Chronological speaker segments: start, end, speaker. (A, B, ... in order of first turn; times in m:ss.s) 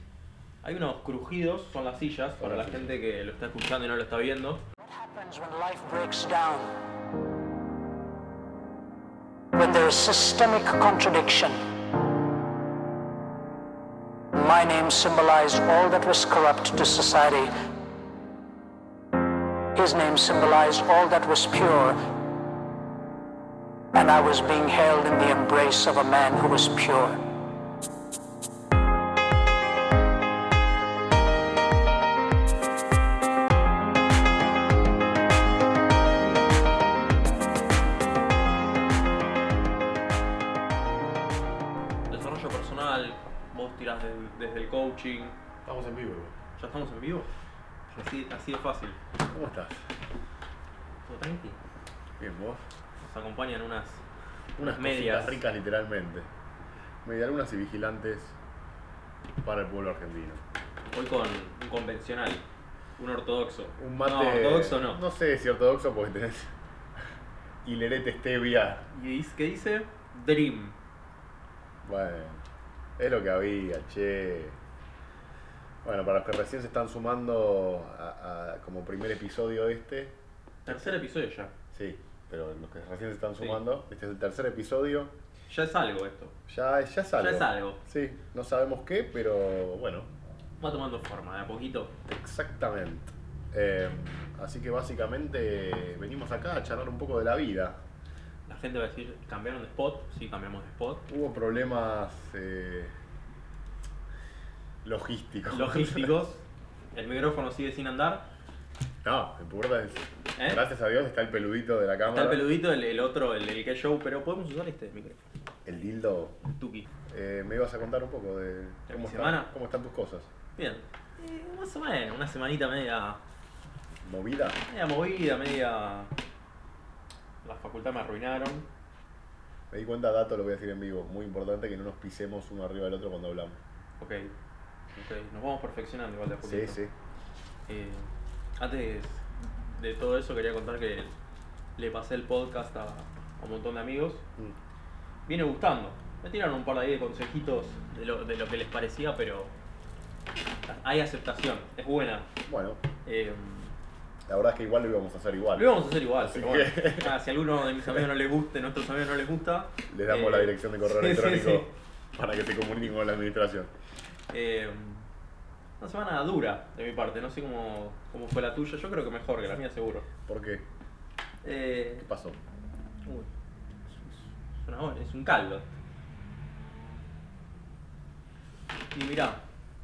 0:00.6-0:04.6 A
0:02.4-0:03.0 B
0:04.8-0:06.7 C
0:09.5-0:11.6 C
0:14.3-0:17.5 C
0:19.8-0:22.0 C
0:23.9-0:27.2 C
0:42.1-0:45.4 A
0:45.6-0:46.4 B
0:46.6-0:47.3 A
0:47.9-0:49.0 A
0:49.3-0:49.9 B
0:51.1-0:51.6 A
0:52.2-0:52.6 B
0:53.0-0:54.0 A
0:54.6-0:56.3 B
0:54.6-0:55.4 A
0:57.0-0:58.4 B
0:59.4-1:00.4 B
1:00.9-1:02.4 A
1:03.0-1:05.0 A
1:03.8-1:06.5 B
1:07.6-1:08.9 B
1:08.9-1:10.8 A
1:11.8-1:12.4 B
1:13.0-1:14.6 B
1:15.8-1:20.2 B
1:20.7-1:21.5 A
1:21.7-1:25.2 B
1:25.5-1:26.4 A
1:26.5-1:30.1 B
1:27.2-1:27.8 A
1:30.6-1:31.9 A
1:32.1-1:37.8 B
1:38.5-1:41.0 A
1:41.1-1:43.0 B
1:44.8-1:46.1 B
1:45.5-1:48.2 A
1:49.0-1:52.4 B
1:50.4-1:50.6 A
1:52.1-1:55.2 A
1:55.7-1:56.4 B
1:56.4-1:56.9 A
1:57.1-2:00.3 B
1:58.9-1:59.5 A
2:00.6-2:03.2 A
2:04.0-2:04.6 B
2:04.7-2:06.1 A
2:07.4-2:08.7 A
2:09.7-2:13.6 B
2:14.0-2:14.3 A
2:15.0-2:16.8 A
2:16.4-2:16.9 B
2:17.7-2:21.1 A
2:21.8-2:24.2 A
2:25.3-2:29.5 A
2:30.7-2:32.3 A
2:32.5-2:32.8 B
2:33.0-2:33.8 A
2:34.3-2:37.1 B
2:35.5-2:41.7 A
2:39.9-2:43.7 B
2:44.3-2:45.1 A
2:45.8-2:50.1 A
2:50.3-2:50.6 B
2:51.4-2:52.1 A
2:52.0-2:52.4 B
2:53.9-2:55.7 A
2:58.9-2:59.4 A